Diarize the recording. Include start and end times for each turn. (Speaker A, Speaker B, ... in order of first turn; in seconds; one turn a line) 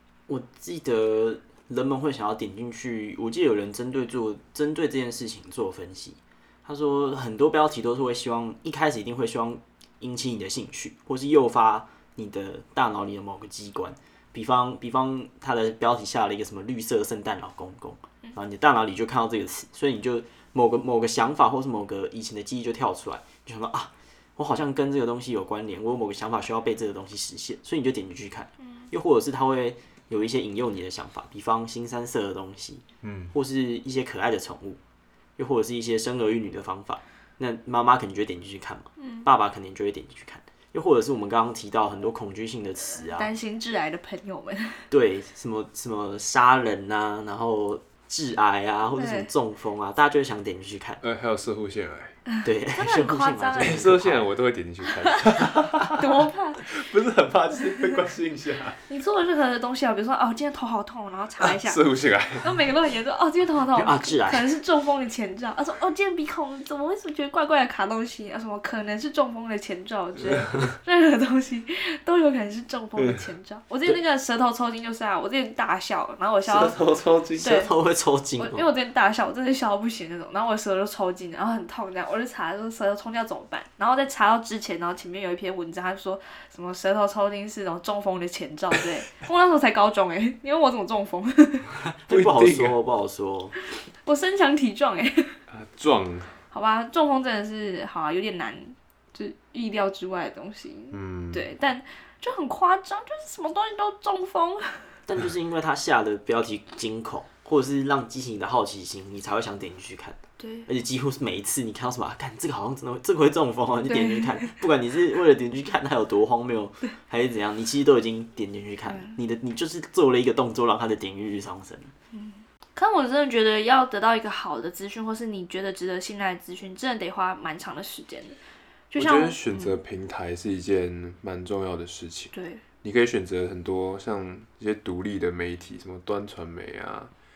Speaker A: 0.3-34.8
Speaker B: 33.0-33.3
Speaker A: 35.4-43.3
Speaker C: 39.0-39.2
Speaker C: 43.0-44.9
Speaker A: 44.9-51.0
Speaker C: 49.0-49.3
Speaker B: 51.0-52.2
Speaker C: 52.3-53.9
Speaker A: 52.4-54.3
Speaker B: 53.6-58.8
Speaker C: 55.0-56.7
Speaker C: 58.9-61.8
Speaker B: 61.4-62.6
Speaker C: 62.4-76.8
Speaker A: 63.7-64.5
Speaker B: 76.5-77.6
Speaker A: 77.4-78.7
Speaker C: 77.4-77.7
Speaker C: 78.4-91.7
Speaker A: 91.9-93.5
Speaker B: 92.1-92.8
Speaker C: 94.0-95.4
Speaker B: 95.5-96.3
Speaker C: 96.5-104.9
Speaker B: 100.9-101.5
Speaker A: 105.1-121.9
Speaker C: 110.4-110.7
Speaker C: 113.9-114.5
Speaker C: 118.9-119.2
Speaker C: 122.1-128.4
Speaker C: 128.9-129.8
Speaker B: 128.9-137.1
Speaker C: 132.3-132.6